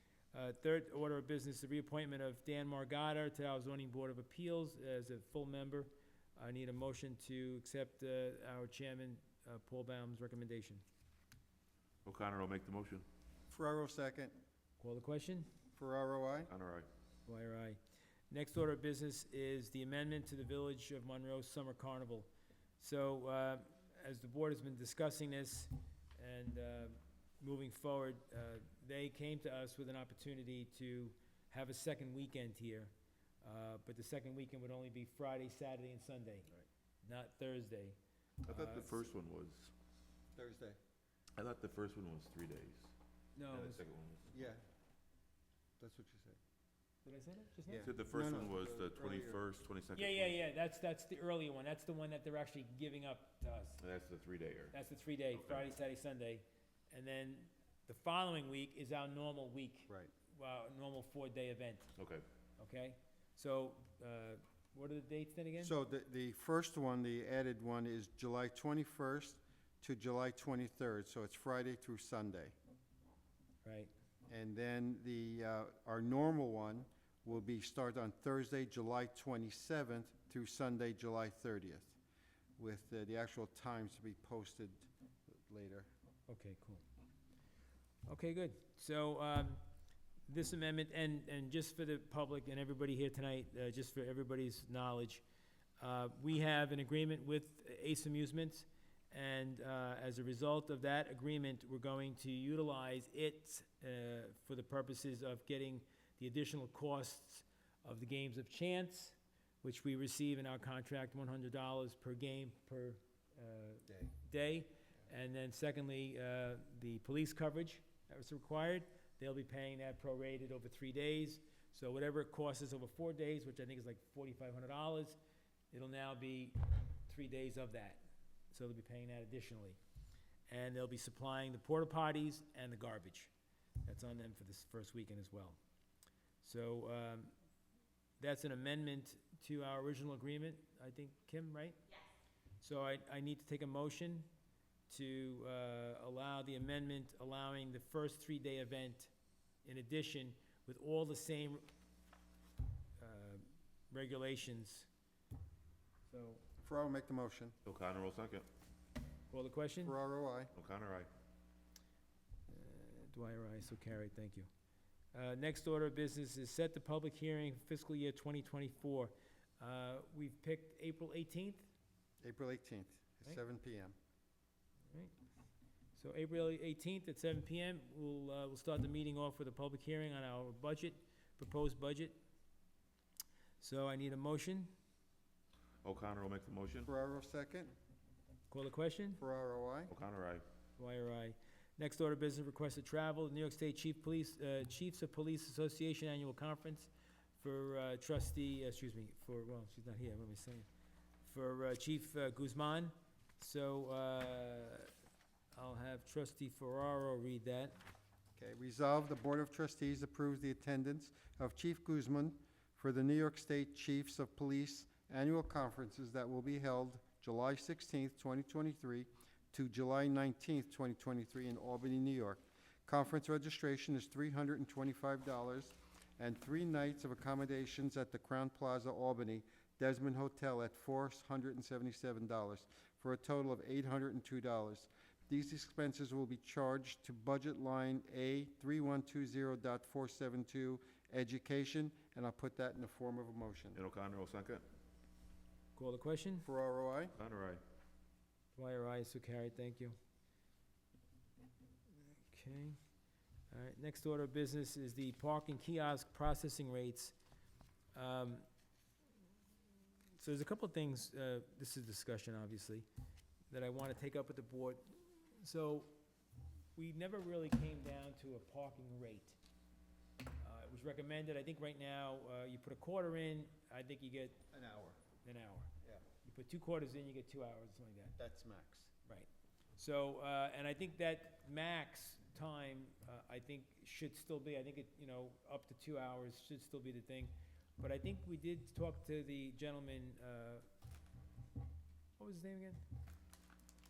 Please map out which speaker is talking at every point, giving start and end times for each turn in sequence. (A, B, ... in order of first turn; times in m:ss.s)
0:00.3-0:10.8 A
0:12.0-0:13.0 B
0:13.5-0:14.4 C
0:14.8-0:15.5 A
0:15.7-0:16.5 C
0:16.5-0:16.9 B
0:17.2-0:17.8 A
0:18.3-0:22.3 A
0:22.8-0:39.0 A
0:38.4-0:39.7 B
0:40.3-0:40.8 C
0:41.4-0:42.9 B
0:43.4-0:43.8 A
0:43.5-0:44.3 B
0:44.3-0:44.6 C
0:45.8-0:46.4 C
0:47.0-0:47.9 A
0:47.7-0:49.4 C
0:47.8-0:50.4 B
0:49.9-0:53.8 A
0:53.8-0:54.7 B
0:54.7-1:01.9 A
0:55.4-0:55.6 B
1:02.0-1:02.2 B
1:02.6-1:05.7 A
1:05.6-1:12.5 C
1:13.6-1:13.9 A
1:14.3-1:22.0 C
1:22.6-1:25.9 C
1:26.3-1:26.8 A
1:28.0-1:29.6 A
1:30.3-1:35.2 A
1:35.8-2:05.2 A
2:05.7-2:09.8 A
2:10.5-2:13.3 A
2:13.8-2:15.6 A
2:16.4-2:17.3 A
2:18.2-2:22.0 A
2:22.6-2:24.2 A
2:24.9-2:29.1 A
2:29.6-2:31.6 A
2:33.0-2:34.9 A
2:36.1-2:36.4 A
2:36.6-2:37.6 C
2:37.6-2:38.5 B
2:39.3-2:40.0 A
2:39.8-2:40.5 C
2:40.5-2:41.1 B
2:42.5-2:44.5 A
2:45.1-2:51.7 A
2:52.2-2:53.9 C
2:55.9-3:02.2 A
3:03.6-3:04.7 A
3:05.8-3:06.9 B
3:06.8-3:07.7 C
3:08.5-3:09.2 A
3:09.2-3:09.9 C
3:09.9-3:10.4 B
3:10.8-3:20.6 A
3:21.2-3:24.9 A
3:25.5-3:27.8 A
3:28.4-4:03.8 C
4:03.7-4:04.6 B
4:05.8-4:06.5 A
4:06.4-4:07.1 C
4:07.2-4:07.6 B
4:08.6-4:10.0 A
4:12.2-4:12.8 A
4:13.5-4:17.1 A
4:17.9-4:18.4 A
4:20.2-4:22.8 A
4:23.5-4:25.9 A
4:26.8-4:29.4 A
4:30.4-4:34.4 A
4:34.5-4:35.0 C
4:35.2-4:35.7 A
4:36.2-4:38.2 A
4:38.2-4:38.9 C
4:39.0-4:50.6 A
4:52.2-4:52.8 A